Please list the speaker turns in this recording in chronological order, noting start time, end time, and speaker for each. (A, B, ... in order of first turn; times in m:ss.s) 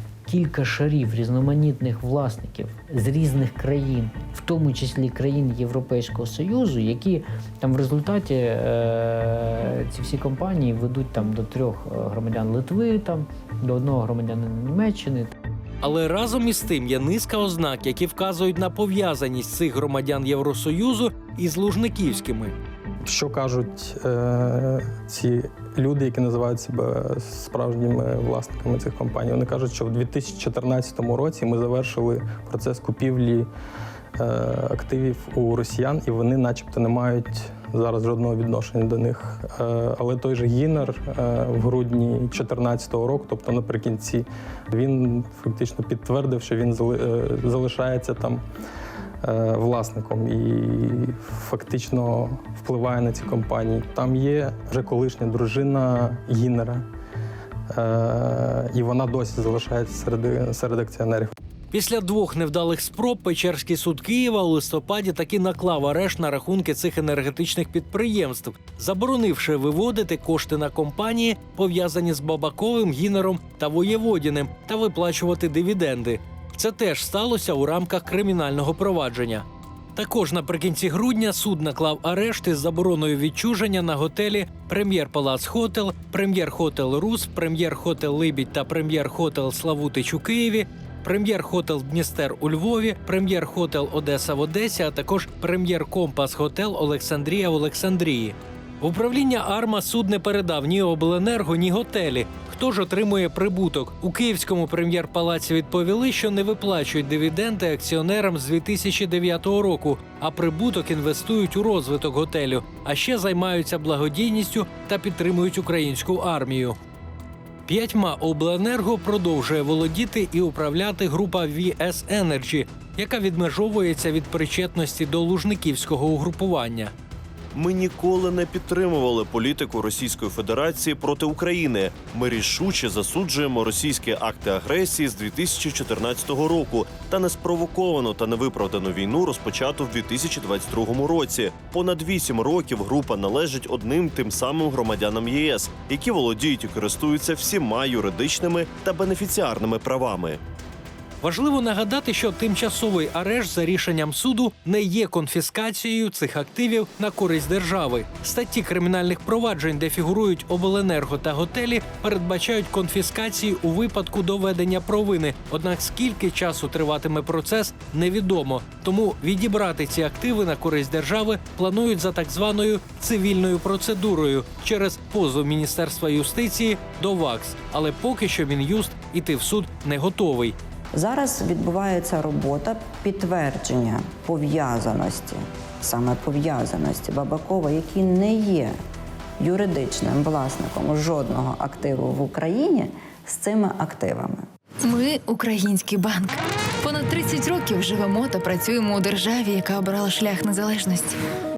0:00.3-0:15.4 A
0:15.8-0:22.6 B
0:23.0-0:33.5 C
0:34.2-0:48.4 C
0:49.2-0:56.8 C
0:57.7-1:01.3 C
1:01.7-1:56.8 B
1:57.7-2:06.9 B
2:07.5-2:30.4 D
2:31.2-3:00.6 B
3:00.9-3:08.8 E
3:09.4-3:14.4 E
3:14.8-3:21.2 F